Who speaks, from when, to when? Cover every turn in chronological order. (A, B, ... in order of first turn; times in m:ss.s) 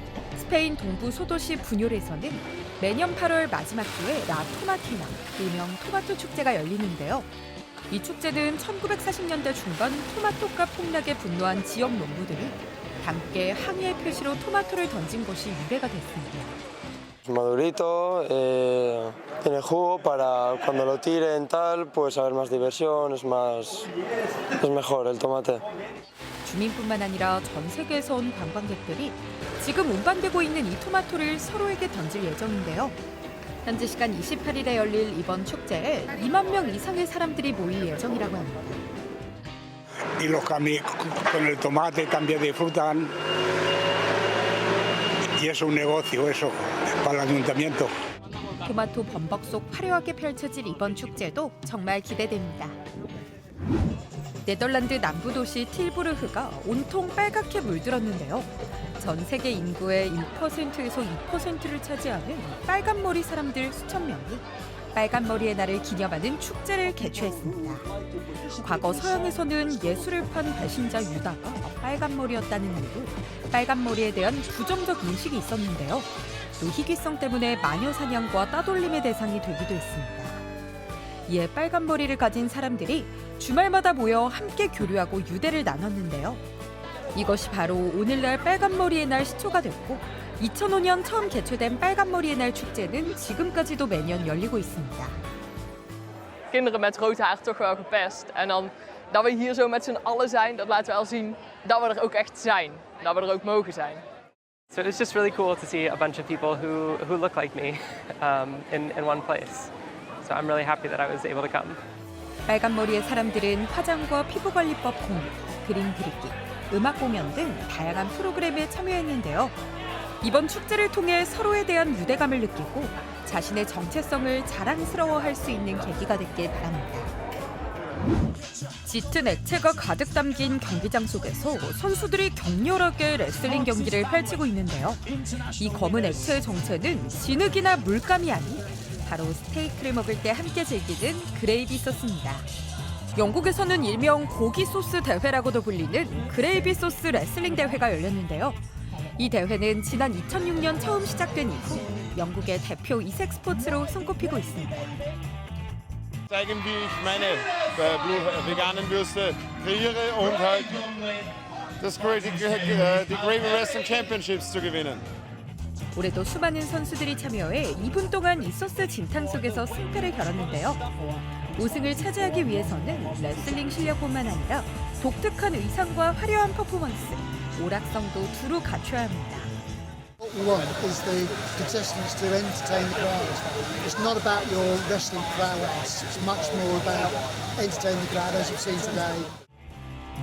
0:00.3-0:07.3 A
0:07.9-0:16.6 A
0:17.2-0:23.9 B
0:24.5-0:25.6 B
0:26.4-0:33.0 A
0:33.6-0:38.8 A
0:40.2-0:43.1 C
0:45.4-0:47.9 C
0:48.6-0:52.8 A
0:54.4-1:07.9 A
1:08.5-1:20.4 A
1:21.3-1:26.4 A
1:27.1-1:35.2 A
1:36.5-1:44.0 D
1:44.7-1:49.7 E
1:50.2-1:51.8 E
1:52.5-1:59.6 A
2:00.2-2:07.1 A
2:08.8-2:22.5 A
2:23.1-2:28.6 A
2:29.2-2:35.0 A
2:36.3-2:40.9 F
2:41.8-2:45.0 F
2:45.9-2:50.8 A
2:51.5-2:59.5 A
3:00.2-3:09.3 G